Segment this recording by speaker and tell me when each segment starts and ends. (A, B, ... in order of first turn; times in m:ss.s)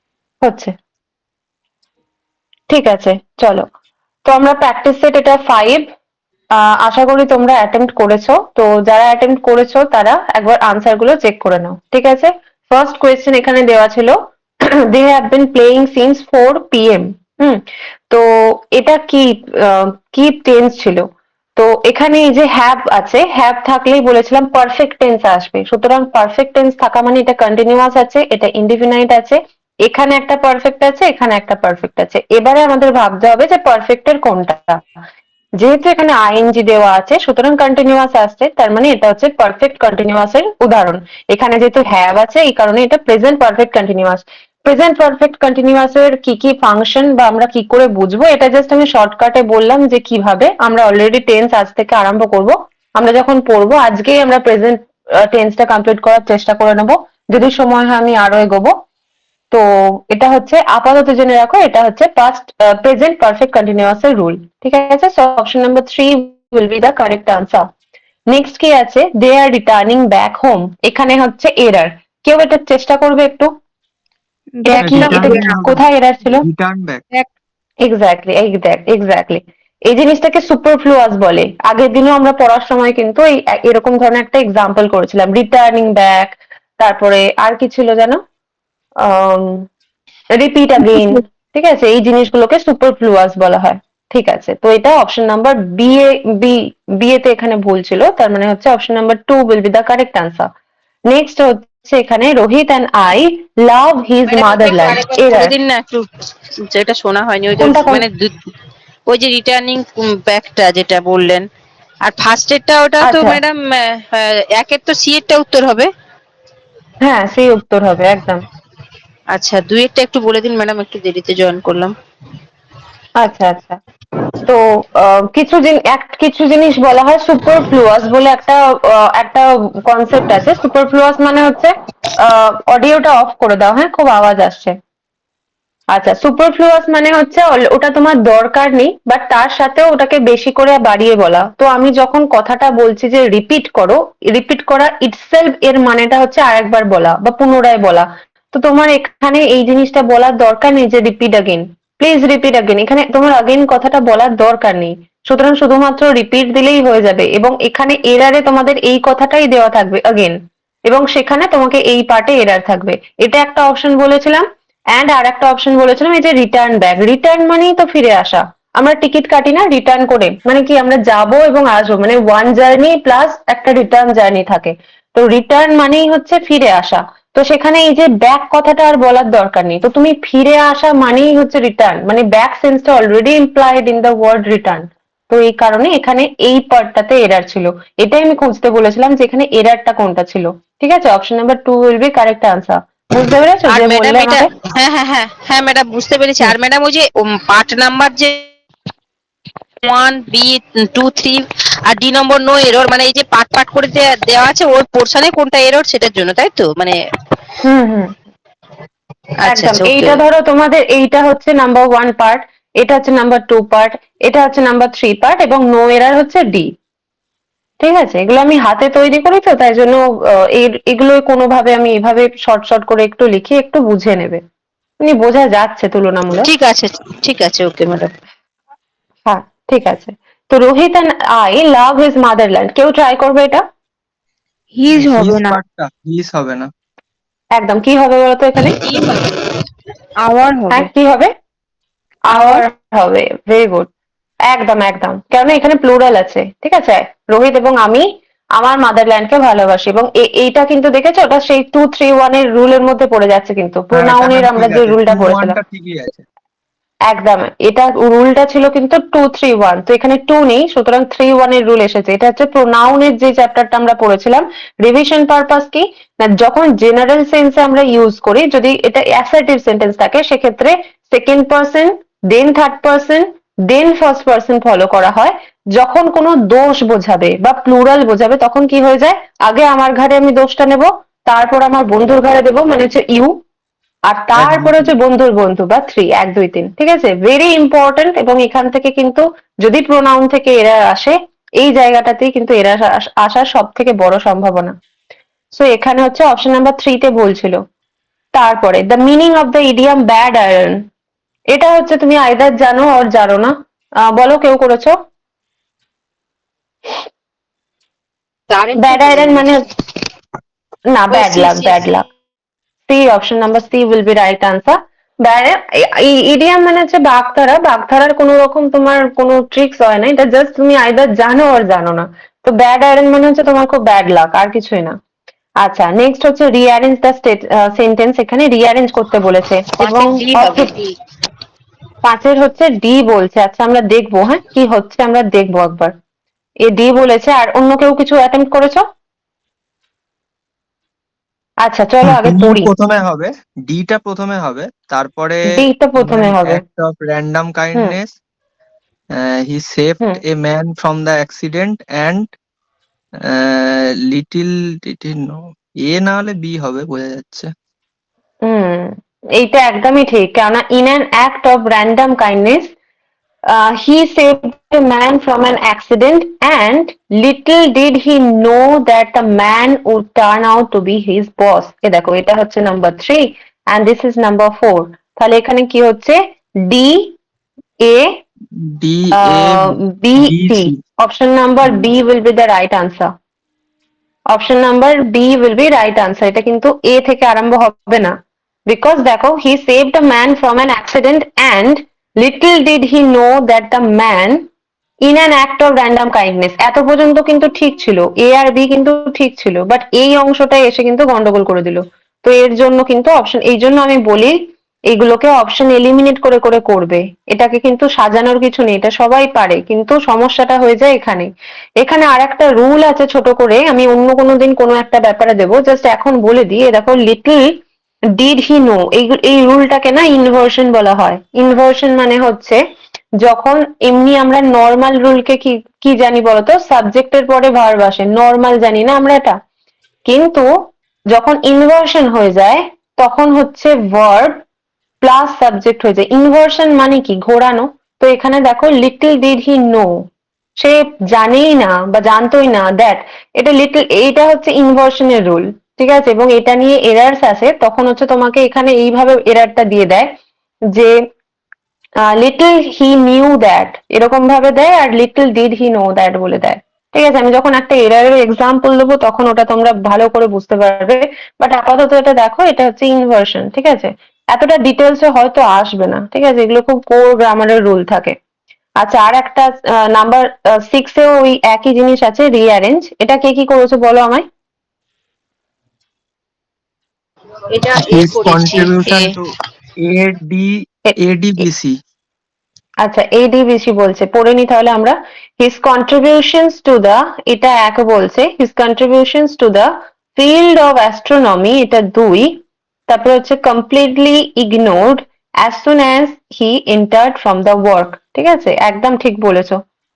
0:00.4-0:00.7 A
0:02.7-0:03.7 A
0:04.3-0:05.9 A
0:06.6-0:14.2 A
0:14.9-0:21.1 A
0:21.6-0:34.8 A
0:35.6-0:58.7 A
0:59.5-1:07.7 A
1:08.3-1:13.5 A
1:14.6-1:15.6 B
1:14.6-1:16.4 A
1:14.8-1:17.1 C
1:17.8-1:28.2 A
1:29.0-1:29.7 A
1:30.4-1:40.5 A
1:41.1-1:45.5 A
1:44.3-1:46.1 D
1:46.7-1:48.5 D
1:47.6-1:48.1 A
1:49.1-1:51.4 D
1:52.0-1:55.9 D
1:53.0-1:53.4 A
1:57.0-1:58.4 A
1:59.3-2:01.9 D
2:03.2-2:03.8 A
2:04.5-2:14.8 A
2:15.9-2:40.4 A
2:40.9-2:44.4 A
2:45.0-3:14.5 A
3:13.7-3:18.5 D
3:19.8-3:27.0 D
3:27.6-3:28.1 A
3:29.4-3:30.2 D
3:29.5-3:36.7 A
3:37.8-3:44.4 A
3:45.0-3:46.5 A
3:46.4-3:48.1 D
3:49.3-3:53.6 A
3:54.8-3:55.6 B
3:54.9-3:56.7 C
3:57.6-3:58.8 A
3:58.8-3:59.3 D
4:00.2-4:00.9 B
4:00.7-4:01.3 A
4:02.3-4:03.9 A
4:02.3-4:02.6 B
4:04.5-4:08.1 A
4:08.6-4:15.6 A
4:13.9-4:16.2 C
4:17.1-4:43.3 A
4:44.1-4:54.8 A
4:44.4-4:45.0 C
4:55.6-4:57.6 A
4:58.4-5:00.8 A
5:01.5-5:03.5 A
5:04.1-5:05.0 A
5:08.5-5:09.6 D
5:08.8-5:09.6 A
5:10.9-5:12.1 A
5:11.1-5:11.9 D
5:12.9-5:25.0 A
5:25.6-5:30.7 A
5:29.8-5:31.0 D
5:32.0-5:35.9 A
5:36.6-5:38.8 A
5:41.6-5:42.7 A
5:42.0-5:45.4 C
5:45.5-5:46.6 A
5:46.0-5:48.2 C
5:49.2-5:52.3 C
5:53.2-5:57.5 C
5:58.4-6:02.7 A
6:03.5-6:17.2 A
6:18.8-6:20.8 C
6:19.2-6:23.1 A
6:24.3-6:28.1 A
6:28.7-6:34.4 A
6:35.0-6:44.3 A
6:44.9-6:51.3 A
6:51.8-6:57.5 A
6:58.2-7:02.6 A
7:03.2-7:09.4 A
7:10.1-7:10.5 A
7:11.1-7:14.4 A
7:15.0-7:19.9 A
7:20.6-7:30.1 A
7:32.1-7:48.2 A
7:48.8-7:54.3 A
7:57.5-7:59.1 D
7:57.7-7:59.2 C
7:59.8-8:01.8 C
8:02.8-8:19.6 A